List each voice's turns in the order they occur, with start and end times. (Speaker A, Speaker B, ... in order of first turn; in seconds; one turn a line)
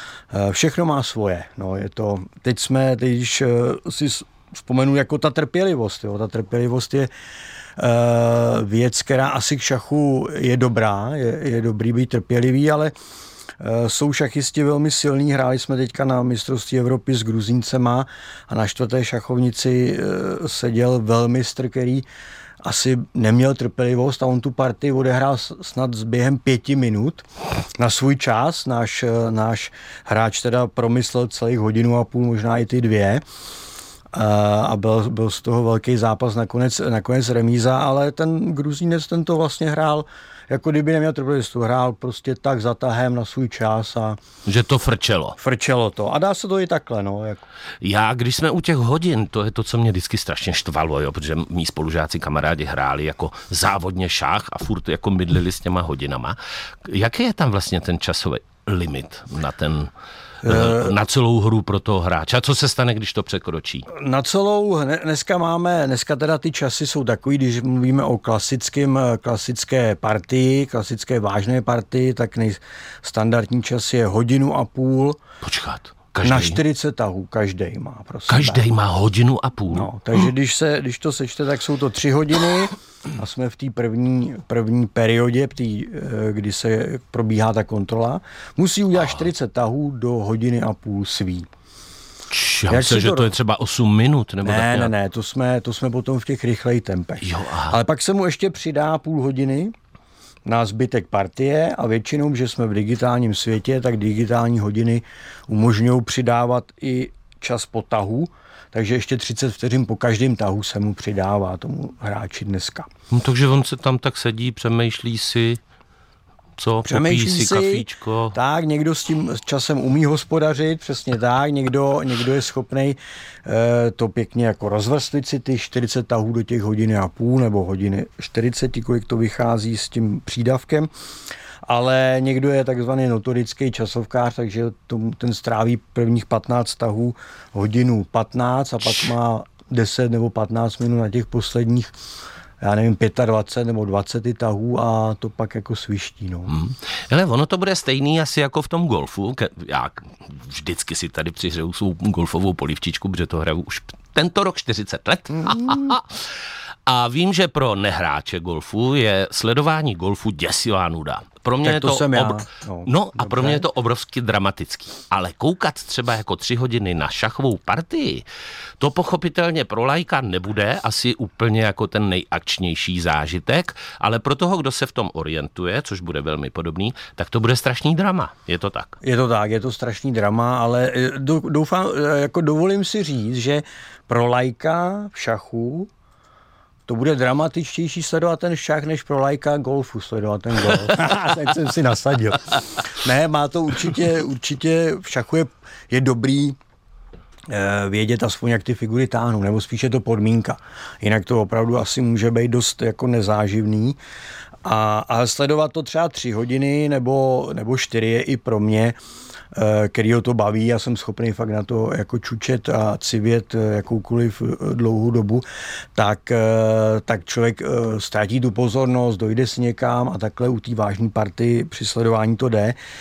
Speaker A: 0.3-7.1
Speaker A: 7.8-12.9
Speaker A: 13.6-22.1
Speaker A: 22.6-27.2
Speaker A: 27.8-33.2
Speaker A: 34.1-44.2
Speaker B: 44.5-45.4
Speaker A: 45.4-47.4
Speaker B: 47.8-59.9
Speaker A: 60.4-61.0
Speaker B: 60.4-63.9
Speaker A: 63.9-75.2
Speaker B: 75.4-76.6
Speaker A: 76.2-78.7
Speaker B: 78.3-79.9
Speaker A: 79.7-91.5
Speaker B: 92.3-94.9
Speaker A: 92.7-93.3
Speaker A: 94.4-99.7
Speaker B: 97.2-97.8
Speaker A: 100.4-112.9
Speaker B: 113.1-115.6
Speaker B: 116.6-118.3
Speaker A: 116.8-130.9
Speaker A: 131.6-142.0
Speaker A: 142.6-146.5
Speaker B: 146.5-168.2
Speaker A: 155.4-155.9
Speaker A: 161.6-163.7
Speaker B: 168.8-179.0
Speaker A: 179.0-185.9
Speaker A: 186.9-196.6
Speaker A: 197.5-204.0
Speaker A: 204.6-209.0
Speaker A: 209.5-222.8